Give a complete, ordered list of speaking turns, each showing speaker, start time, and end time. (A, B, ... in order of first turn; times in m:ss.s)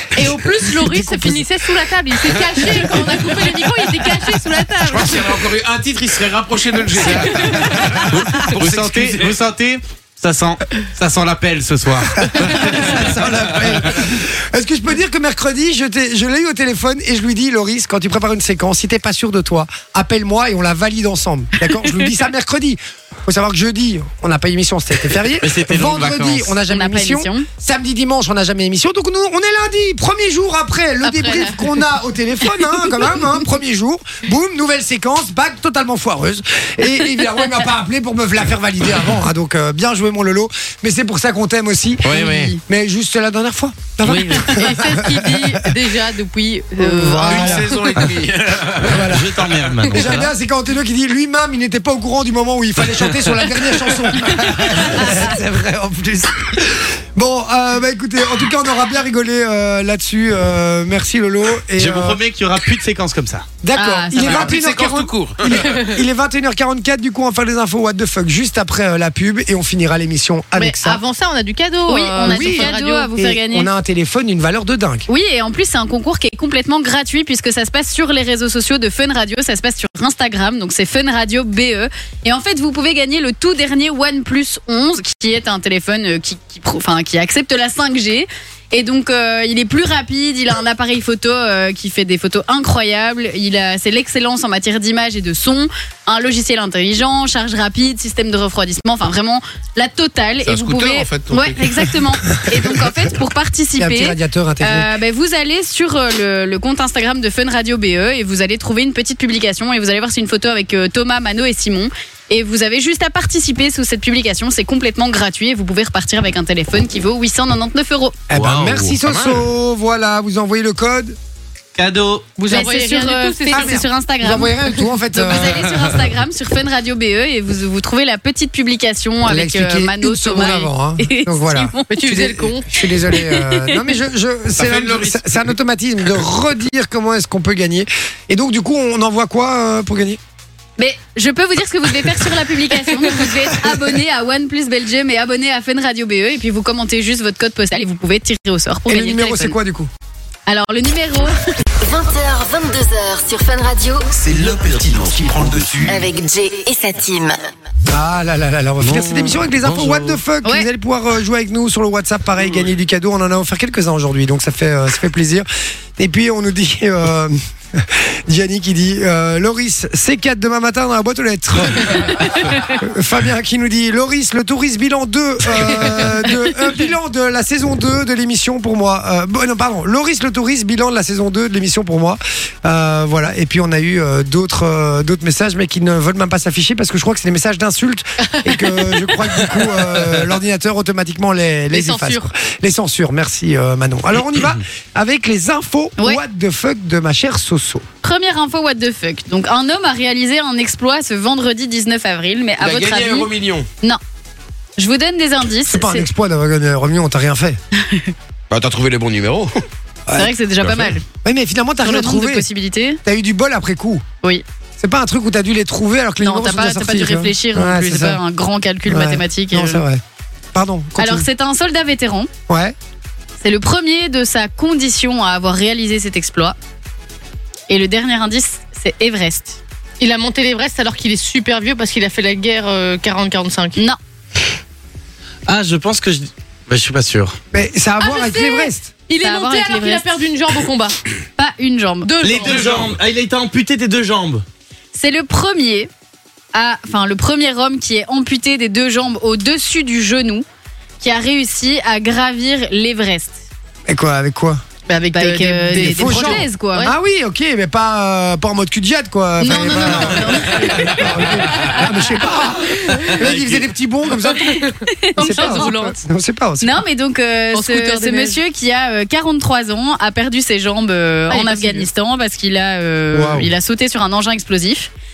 0:00.2-0:05.4 A
0:01.0-0:01.4 B
0:04.8-0:09.4 C
0:08.1-0:13.8 D
0:12.2-0:45.7 B
0:25.4-0:26.5 D
0:26.7-0:27.5 E
0:31.1-0:31.6 A
0:42.1-0:42.5 D
0:42.1-0:42.6 E
0:44.0-0:44.5 D
0:44.4-0:47.9 A
0:46.8-0:48.2 B
0:47.2-0:49.7 C
0:48.8-1:02.2 B
0:49.0-0:50.3 D
1:01.8-1:03.5 D
1:03.6-1:11.0 B
1:03.8-1:04.6 E
1:04.2-1:05.8 C
1:10.6-1:13.1 A
1:11.9-1:13.7 E
1:12.3-1:15.1 B
1:15.1-1:58.2 E
1:40.4-1:41.8 C
1:43.8-1:44.9 B
1:58.3-2:01.2 B
1:58.3-1:59.4 D
2:01.8-2:02.3 D
2:02.4-2:03.8 A
2:02.5-2:11.9 E
2:03.5-2:06.1 B
2:09.2-2:20.2 B
2:11.9-2:12.7 A
2:13.1-2:13.9 E
2:14.6-2:15.5 C
2:20.8-2:29.6 E
2:28.9-2:29.9 B
2:30.5-2:31.4 E
2:31.8-2:34.7 F
2:34.1-2:36.1 G
2:35.8-2:37.4 F
2:37.9-3:17.9 B
2:38.8-2:40.2 D
3:08.4-3:09.0 A
3:11.7-3:12.3 A
3:18.0-3:23.3 E
3:22.6-3:23.7 C
3:24.8-3:26.1 E
3:25.7-3:27.6 B
3:27.8-3:28.1 E
3:28.5-3:29.6 C
3:30.1-3:32.5 B
3:30.1-3:31.0 E
3:31.8-3:33.0 E
3:33.0-3:34.0 B
3:34.8-3:38.2 B
3:36.2-3:39.8 E
3:38.9-3:40.0 B
3:40.5-3:41.3 B
3:41.0-3:42.3 E
3:42.5-3:42.8 B
3:43.4-3:46.6 E
3:47.7-3:49.6 E
3:50.0-3:53.8 A
3:55.5-3:57.4 D
3:57.5-3:58.9 B
3:58.0-4:01.0 A
3:59.2-4:00.0 E
4:01.4-4:02.1 E
4:02.1-4:03.0 A
4:02.2-4:04.4 D
4:04.9-4:05.9 E
4:06.5-4:10.4 E
4:11.0-4:13.4 E
4:13.9-4:14.6 B
4:14.9-4:16.9 A
4:15.1-4:16.9 E
4:15.7-4:26.8 B
4:19.4-4:21.8 E
4:19.8-4:21.2 D
4:22.9-4:23.1 A
4:23.1-4:23.7 D
4:24.4-4:26.0 A
4:25.0-4:25.7 E
4:26.6-4:34.9 E
4:27.5-4:28.4 A
4:31.3-4:31.9 A
4:33.1-4:33.5 B